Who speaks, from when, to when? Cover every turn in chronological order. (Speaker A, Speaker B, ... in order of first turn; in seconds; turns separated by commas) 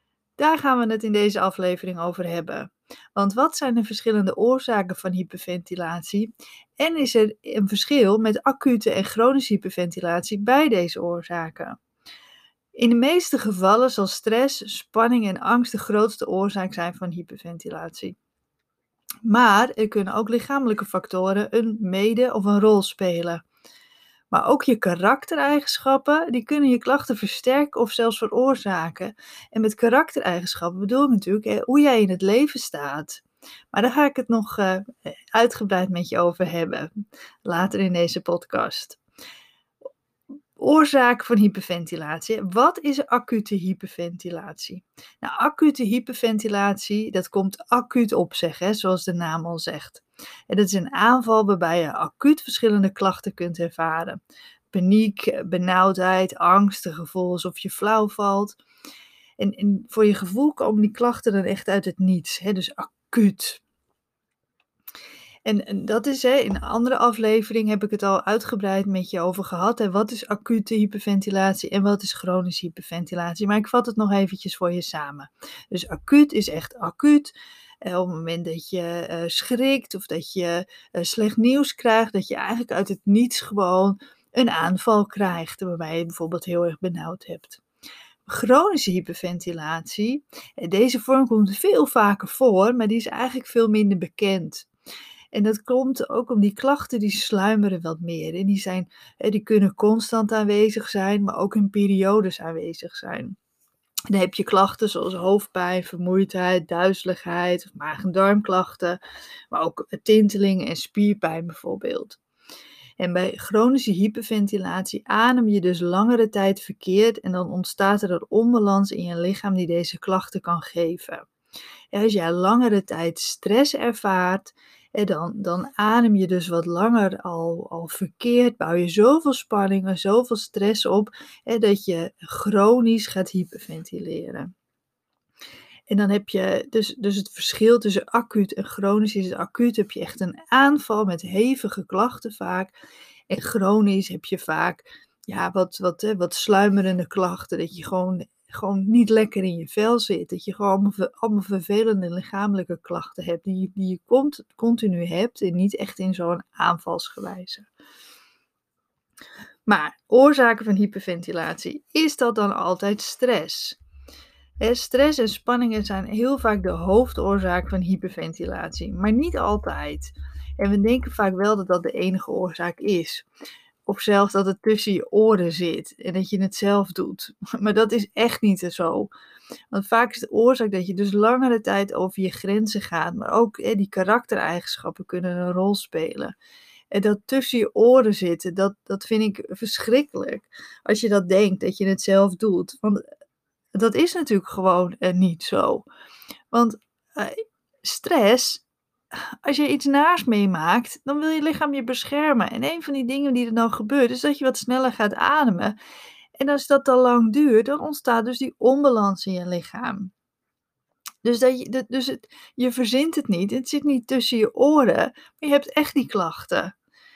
Speaker A: 0.4-11.8, Speaker A: 12.8-18.1, Speaker A: 19.2-23.4, Speaker A: 24.3-36.9, Speaker A: 37.4-39.0, Speaker A: 40.6-54.2, Speaker A: 54.7-58.6, Speaker A: 59.4-63.6, Speaker A: 65.4-87.6, Speaker A: 88.2-94.7, Speaker A: 95.3-103.3, Speaker A: 104.1-109.0, Speaker A: 109.5-112.2, Speaker A: 113.0-121.2, Speaker A: 121.9-134.5, Speaker A: 135.9-142.7, Speaker A: 143.3-157.7, Speaker A: 159.7-163.8, Speaker A: 164.6-173.2, Speaker A: 173.9-179.1, Speaker A: 179.7-186.3, Speaker A: 186.9-193.0, Speaker A: 193.7-195.9, Speaker A: 196.5-198.6, Speaker A: 199.4-205.8, Speaker A: 206.4-210.1, Speaker A: 211.2-216.7